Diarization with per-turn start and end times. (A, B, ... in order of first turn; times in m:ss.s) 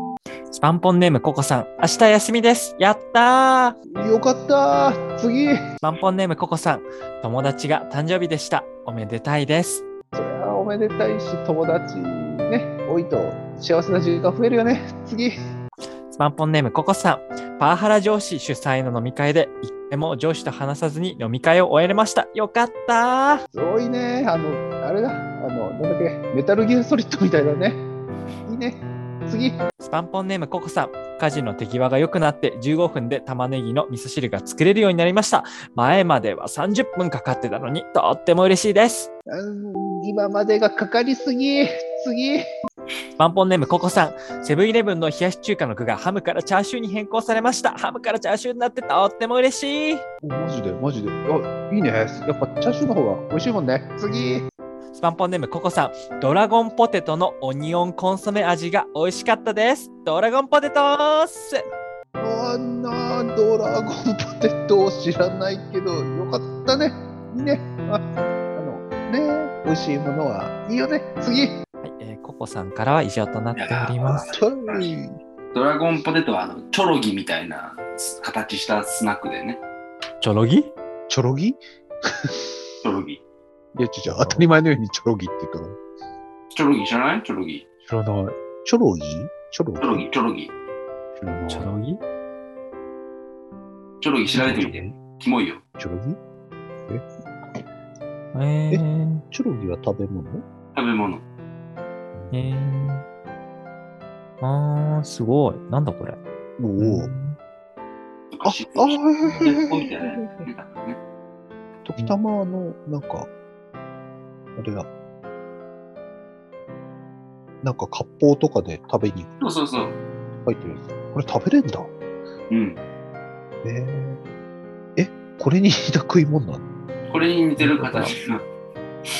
0:00.5-0:03.8 A
0:03.9-0:05.7 B
0:05.8-0:09.8 A
0:10.1-0:15.4 B
0:16.1-0:23.4 A
0:23.5-0:27.8 B
0:28.4-0:29.6 B
0:29.8-0:39.1 A
0:39.3-0:42.4 B
0:43.2-0:50.0 A
0:50.2-0:54.5 B
0:55.0-1:01.6 A
1:02.2-1:11.6 B
1:11.8-1:14.3 A
1:13.6-1:14.9 C
1:14.0-1:15.1 B
1:15.5-1:19.6 C
1:20.2-1:20.7 A
1:21.1-1:22.5 B
1:22.8-1:23.2 C
1:23.7-1:25.8 B
1:24.0-1:24.5 A
1:26.5-1:27.6 C
1:27.9-1:30.0 B
1:29.8-1:30.5 C
1:31.2-1:31.7 B
1:31.5-1:32.0 A
1:34.0-1:35.6 C
1:34.4-1:34.7 A
1:34.4-1:34.9 B
1:35.8-1:36.2 B
1:38.3-1:39.2 A
1:38.7-1:40.4 B
1:40.7-1:41.2 C
1:42.1-1:42.4 B
1:42.3-1:43.0 A
1:44.4-1:46.2 A
1:46.6-1:47.1 B
1:46.8-1:47.4 A
1:48.3-1:51.0 C
1:48.4-1:50.4 B
1:51.8-1:53.3 B
1:54.6-1:54.9 B
1:57.6-1:59.4 B
1:59.4-2:00.0 C
2:00.4-2:01.9 B
2:02.5-2:02.8 C
2:03.6-2:04.2 B
2:05.0-2:06.6 B
2:07.1-2:08.4 C
2:07.7-2:08.1 A